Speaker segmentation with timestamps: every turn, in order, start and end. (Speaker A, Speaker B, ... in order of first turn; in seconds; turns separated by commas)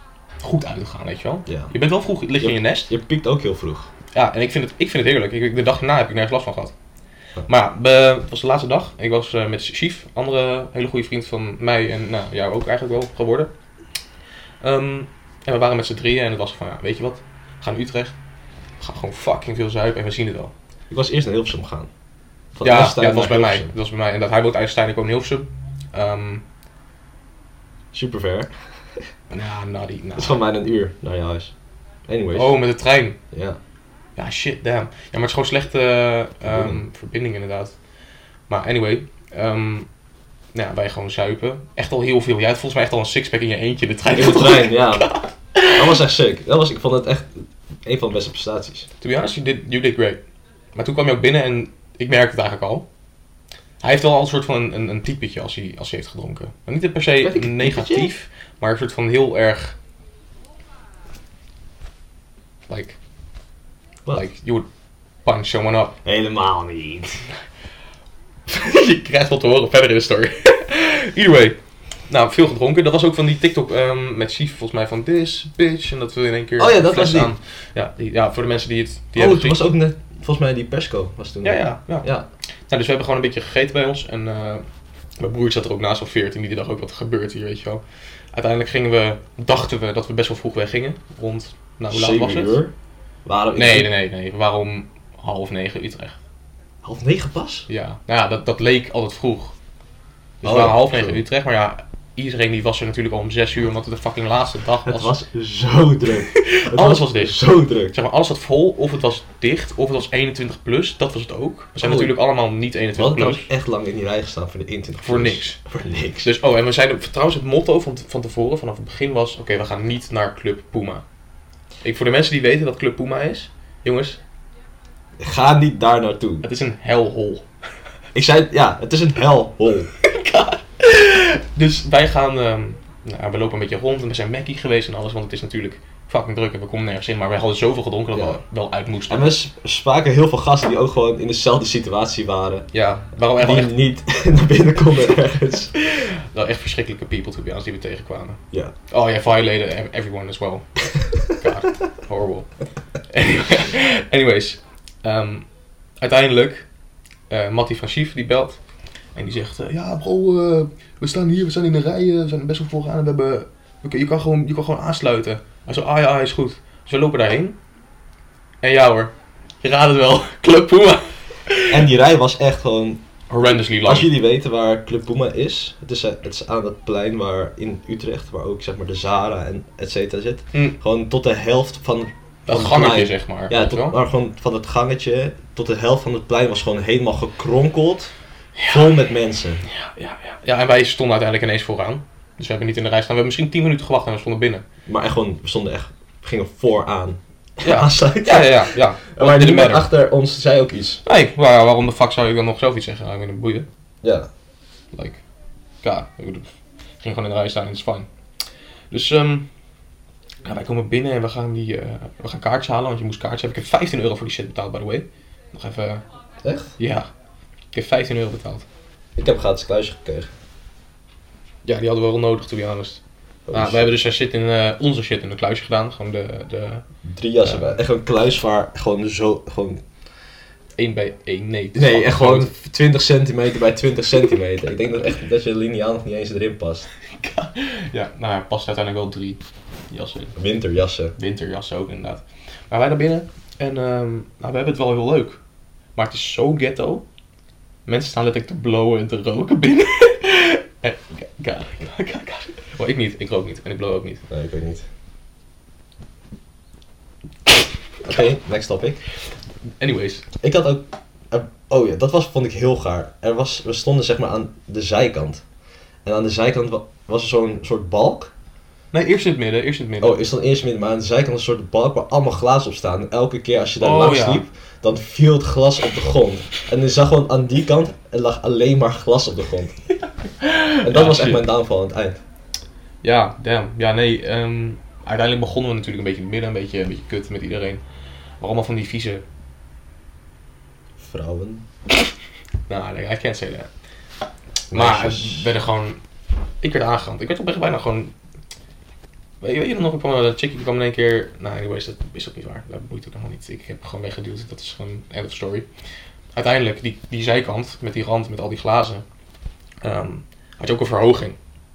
Speaker A: 0.4-2.9, Speaker B: 1.5-1.7, Speaker B: 2.4-3.9, Speaker A: 4.1-6.7, Speaker A: 7.5-13.5, Speaker A: 14.6-18.2, Speaker A: 18.8-20.5, Speaker B: 20.9-21.9, Speaker B: 22.6-23.7, Speaker A: 22.6-26.4, Speaker B: 27.9-28.5, Speaker A: 29.3-30.4, Speaker B: 30.2-31.5, Speaker B: 32.1-32.6, Speaker A: 32.3-33.2, Speaker B: 33.3-33.6, Speaker A: 34.2-37.8, Speaker B: 36.4-36.8, Speaker A: 38.5-39.9, Speaker A: 40.5-46.0, Speaker B: 44.1-45.1, Speaker B: 45.7-48.9, Speaker A: 49.0-50.2, Speaker A: 50.8-52.9, Speaker A: 53.8-59.8, Speaker B: 57.2-58.1, Speaker A: 62.7-63.0, Speaker A: 64.1-64.7, Speaker A: 65.2-66.0, Speaker B: 66.0-67.2, Speaker A: 68.5-71.6, Speaker A: 72.1-79.6, Speaker B: 76.6-77.3, Speaker B: 79.2-82.3, Speaker A: 81.4-82.1, Speaker A: 82.7-84.6, Speaker A: 85.2-87.8, Speaker A: 88.3-92.6, Speaker B: 91.9-92.7, Speaker B: 93.3-93.9, Speaker A: 93.5-96.2, Speaker B: 96.8-97.7, Speaker A: 97.7-99.5, Speaker A: 100.4-105.2, Speaker B: 100.4-101.2, Speaker B: 104.8-107.9, Speaker A: 106.3-113.5, Speaker B: 111.8-112.2, Speaker B: 113.0-116.3, Speaker A: 115.0-115.6, Speaker A: 116.2-121.0, Speaker A: 121.8-124.2, Speaker B: 125.2-126.5, Speaker A: 126.4-127.5, Speaker B: 128.1-129.9, Speaker A: 130.0-139.4, Speaker B: 138.1-138.4, Speaker B: 139.1-142.7, Speaker A: 142.7-143.8, Speaker B: 143.4-145.7, Speaker A: 145.8-152.5, Speaker A: 153.1-155.5, Speaker A: 156.0-156.7, Speaker A: 157.3-158.6, Speaker A: 159.2-167.6, Speaker A: 168.6-171.9, Speaker B: 171.7-173.0, Speaker A: 173.3-174.1, Speaker B: 173.7-188.1, Speaker A: 182.5-184.0, Speaker A: 188.6-189.0, Speaker B: 188.7-189.7, Speaker A: 189.6-194.6, Speaker B: 194.9-201.0, Speaker A: 197.6-199.9, Speaker A: 201.1-203.7, Speaker B: 204.0-204.3, Speaker A: 204.9-205.2, Speaker A: 205.8-206.5, Speaker A: 207.0-208.1, Speaker A: 208.9-209.5, Speaker A: 210.4-216.0, Speaker B: 216.4-216.8, Speaker A: 216.8-217.1, Speaker A: 217.7-218.7, Speaker B: 219.2-220.3, Speaker A: 221.7-223.0, Speaker B: 223.5-223.9, Speaker A: 223.5-226.9, Speaker B: 227.0-229.8, Speaker A: 227.4-227.8, Speaker A: 230.8-232.5, Speaker B: 231.8-236.9, Speaker A: 237.1-240.3, Speaker B: 240.4-241.2, Speaker A: 241.2-245.4, Speaker A: 246.0-247.1, Speaker A: 247.9-254.2, Speaker B: 254.3-254.8, Speaker B: 258.0-259.0, Speaker A: 259.8-260.2, Speaker B: 260.4-265.4, Speaker B: 266.1-268.3, Speaker A: 268.9-270.2, Speaker B: 270.0-279.8, Speaker A: 273.8-274.4, Speaker A: 279.9-281.4, Speaker B: 280.8-282.2, Speaker A: 283.0-287.8, Speaker A: 288.4-289.2, Speaker B: 291.0-291.7, Speaker A: 292.7-293.7, Speaker B: 294.7-295.5, Speaker A: 294.7-296.0, Speaker A: 296.6-298.1, Speaker A: 299.4-305.7, Speaker A: 306.3-309.1, Speaker A: 309.8-311.4